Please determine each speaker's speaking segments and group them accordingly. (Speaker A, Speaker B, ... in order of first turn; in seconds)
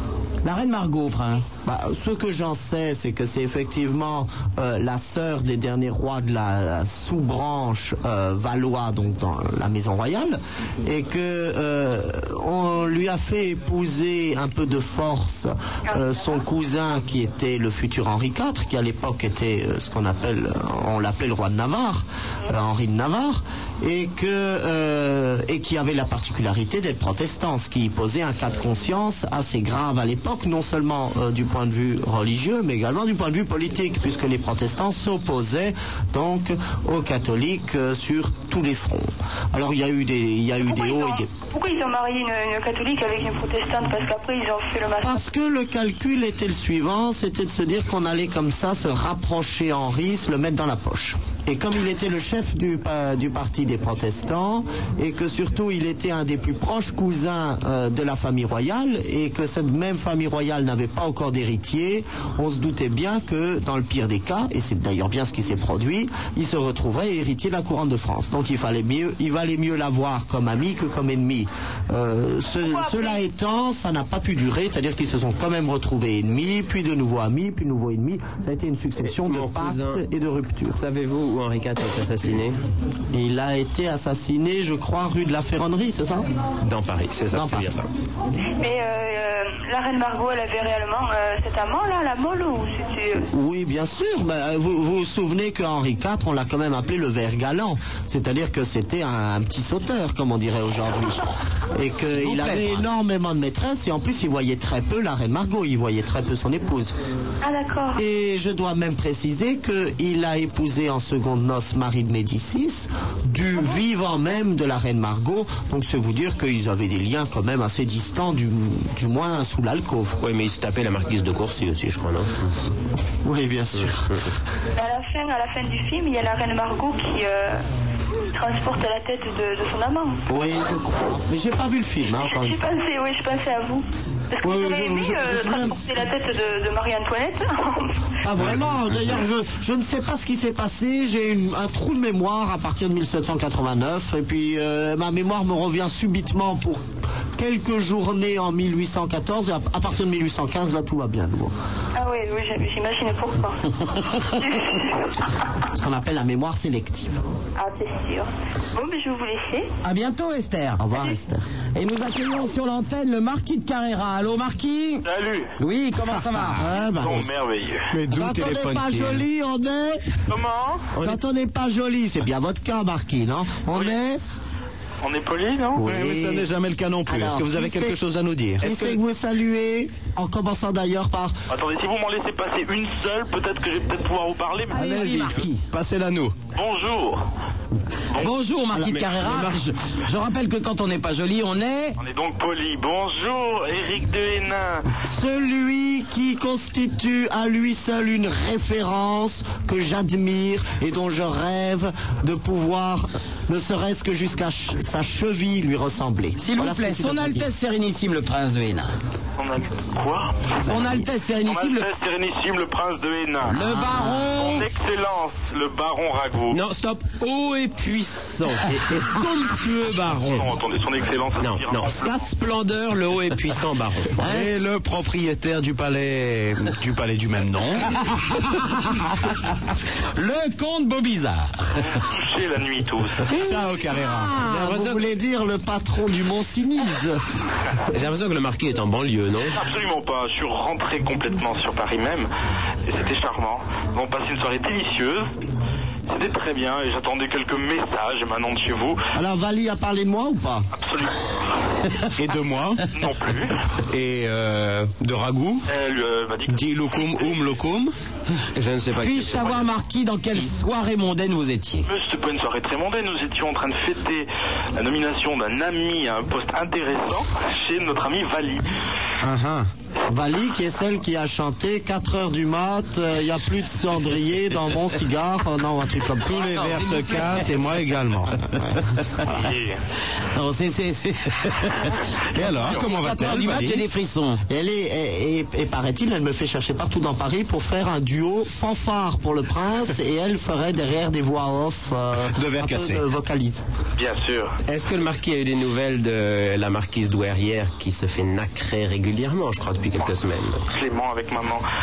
Speaker A: 0.4-1.5, 102.0-102.9, 159.8-160.8, 161.7-165.0, 165.6-166.7, 184.7-185.6, 188.2-192.0, 206.4-208.9, 210.6-211.9, 213.5-214.7, 224.2-224.6, 228.3-229.3, 230.1-231.7, 259.0-261.9, 276.3-277.6, 280.3-284.4
Speaker B: 1.6-41.3, 45.0-80.8, 83.1-86.2, 87.3-87.7, 93.3-107.0, 108.0-120.2, 123.2-124.1, 130.3-132.7, 134.4-135.9, 138.2-151.5, 155.7-157.2, 160.8-161.4, 166.6-167.3, 168.1-170.0, 171.0-174.2, 175.8-176.5, 177.1-177.9, 178.6-181.3, 188.7-189.0, 195.0-207.5, 213.6-214.3, 234.0-237.2, 249.1-250.7, 270.1-276.4, 284.5-293.6
Speaker C: 15.9-16.4, 40.6-45.2, 72.6-73.2, 88.6-93.3, 107.4-108.0, 124.8-127.6, 128.3-130.2, 132.2-138.0, 151.9-155.1, 157.6-159.7
Speaker D: 79.0-80.0, 80.8-82.6, 86.6-87.9, 120.2-122.4, 170.9-171.2, 189.2-189.6, 216.5-220.5, 221.4-224.1, 234.4-235.0, 237.9-239.6, 258.5-259.7, 294.6-300.6
Speaker E: 165.1-165.5, 166.8-167.9, 170.3-170.9, 175.0-175.8, 178.7-178.9, 181.5-185.4, 186.5-187.2, 192.0-194.8, 209.4-213.6, 214.3-216.6, 220.3-222.3, 231.9-233.2, 239.5-242.3, 242.8-245.3, 246.1-249.0, 250.7-251.5, 252.9-253.6, 255.7-257.4, 261.9-268.6, 279.2-279.8, 294.0-294.5, 300.7-301.6
Speaker F: 167.9-169.2, 175.8-178.6, 184.8-186.3, 224.2-227.9, 233.3-234.4, 252.1-252.9, 253.9-255.7, 256.5-257.9, 269.2-269.7, 276.3-278.4, 282.3-283.9, 292.3-293.0